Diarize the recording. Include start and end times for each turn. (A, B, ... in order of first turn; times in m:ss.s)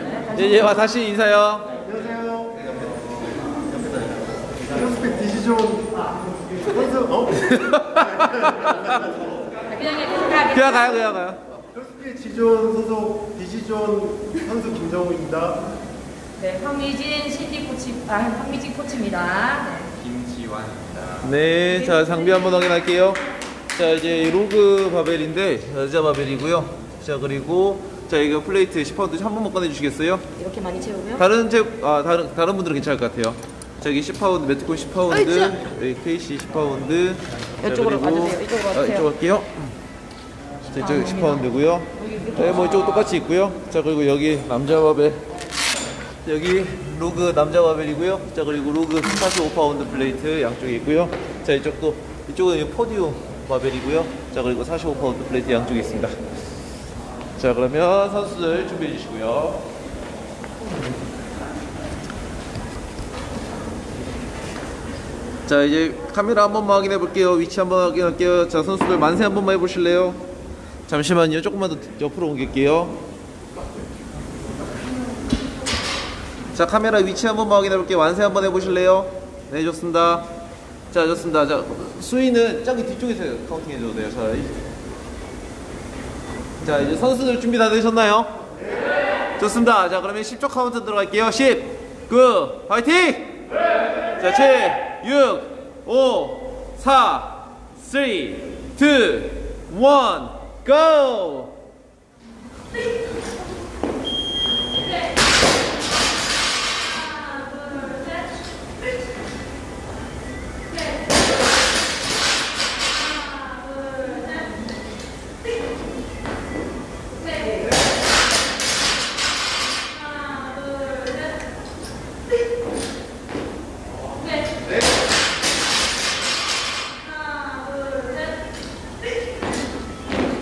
0:00.3-0:01.8 A
0:01.9-0:02.7 B
0:04.7-0:07.4 B
0:07.4-0:08.9 A
0:09.7-0:10.8 C
0:10.3-0:11.4 A
0:11.8-0:15.6 B
0:16.4-0:20.0 C
0:21.1-0:30.3 A
0:30.4-0:31.2 C
0:31.2-0:39.5 A
0:37.7-0:39.0 C
0:40.7-0:45.2 A
0:40.9-0:41.4 C
0:42.0-0:42.4 C
0:46.2-0:56.2 A
0:57.4-0:59.6 A
1:05.5-1:10.2 A
1:10.9-1:13.0 A
1:16.5-1:20.3 A
1:20.9-1:24.6 A
1:26.6-1:28.3 A
1:29.4-1:33.4 A
1:34.1-1:41.6 A
1:47.1-1:48.2 C
1:53.3-1:54.5 C
2:00.3-2:01.1 C